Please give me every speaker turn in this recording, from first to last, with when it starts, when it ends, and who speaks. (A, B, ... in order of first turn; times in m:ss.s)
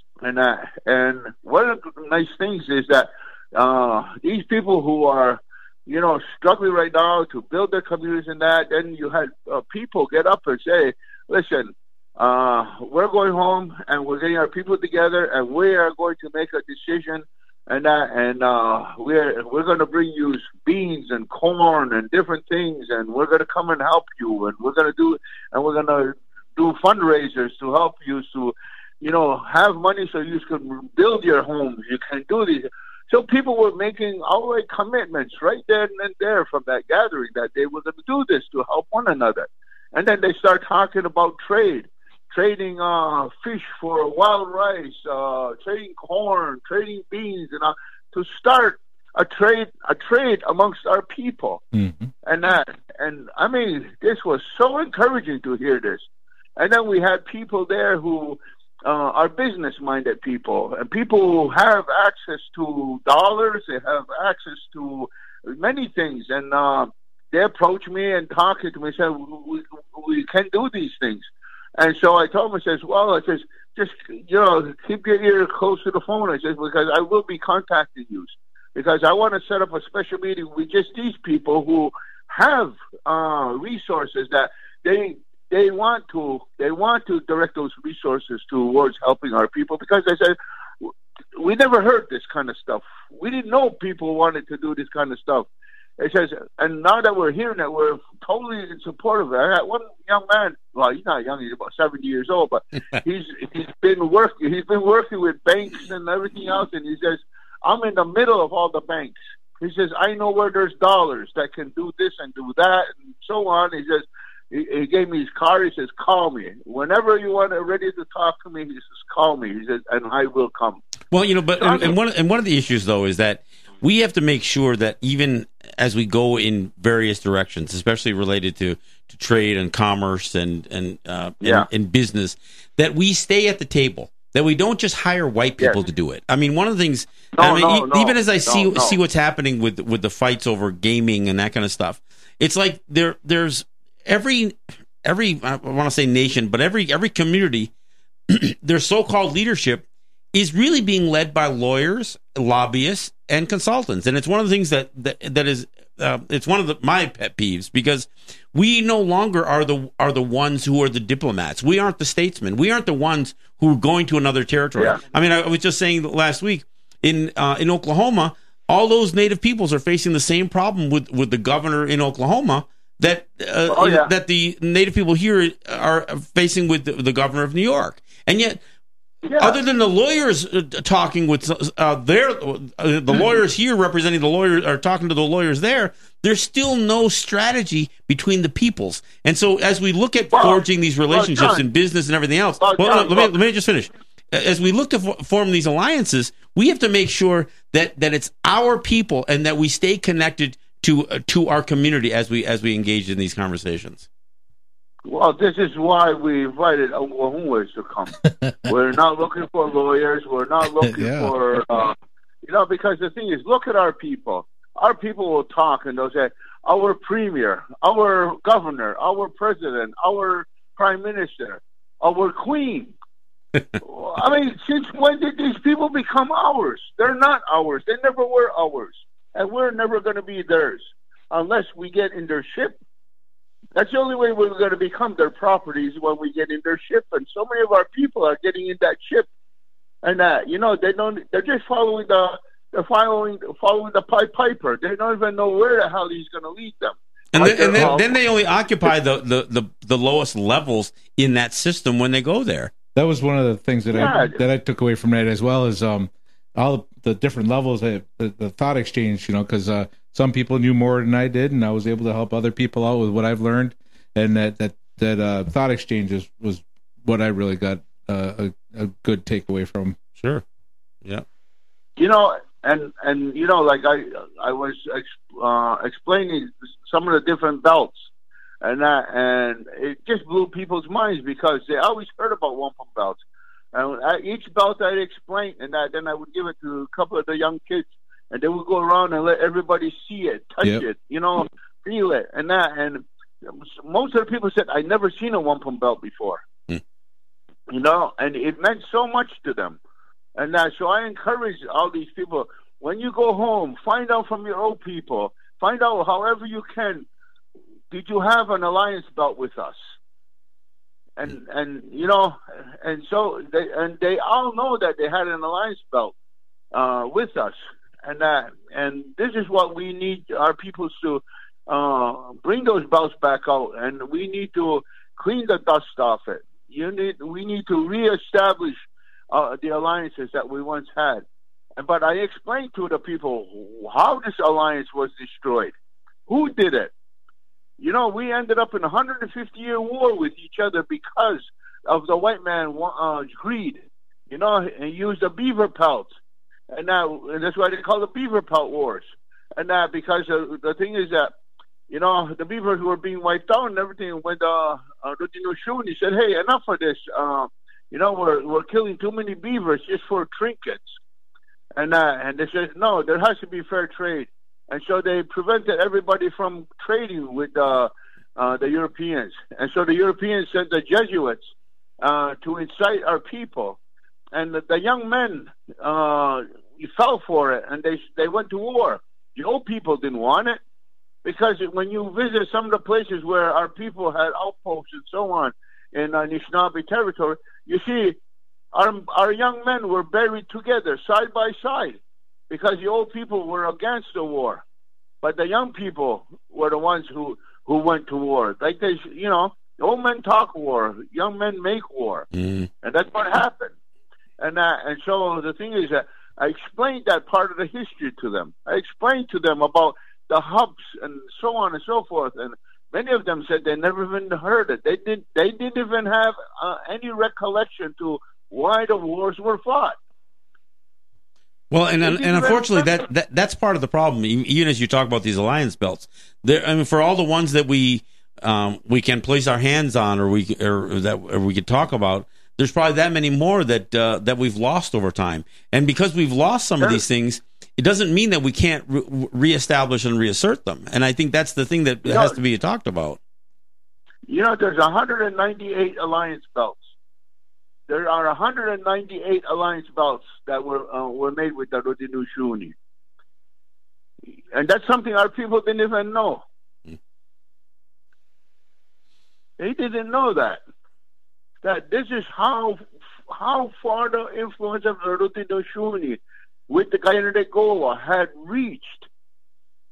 0:00.2-0:51.6 A
0:51.7-0:52.1 B
0:52.2-0:56.1 A
0:56.6-1:35.5 A
1:36.0-2:00.8 A
2:01.1-2:27.7 C
2:01.6-2:02.0 A
2:17.3-2:19.0 A
2:28.3-2:58.6 C
2:53.7-2:54.1 A
2:59.2-2:59.6 A
2:59.4-3:24.1 C
3:10.3-3:11.6 A
3:12.6-3:13.3 A
3:25.0-3:43.0 A
3:30.8-3:31.3 B
3:43.8-3:52.8 A
3:53.8-3:59.3 A
4:00.0-4:08.2 A
4:07.3-4:12.7 C
4:13.0-4:30.0 B
4:13.9-4:14.4 A
4:30.2-4:30.4 C
4:32.0-4:38.1 A
4:38.6-4:43.2 A
4:43.7-4:56.4 A
4:57.7-4:59.8 A
5:00.4-5:07.1 A
5:07.9-5:09.8 A
5:11.2-5:16.1 A
5:16.7-5:31.2 A
5:31.8-5:35.8 A
5:36.3-5:36.9 A
5:37.8-5:46.1 A
5:46.7-5:51.3 A
5:51.9-6:01.0 A
6:01.8-6:13.8 A
6:14.3-6:20.6 A
6:21.2-6:28.2 A
6:28.7-6:32.0 A
6:32.5-6:34.6 A
6:35.2-6:42.3 A
6:42.3-6:42.7 C
6:42.8-6:43.7 A
6:44.4-7:00.0 A
7:01.7-7:23.2 C
7:02.0-7:02.9 A
7:22.1-7:22.4 A
7:24.3-7:26.9 A
7:27.9-7:32.8 A
7:34.5-7:36.4 A
7:39.6-7:40.6 A
7:41.6-7:49.1 A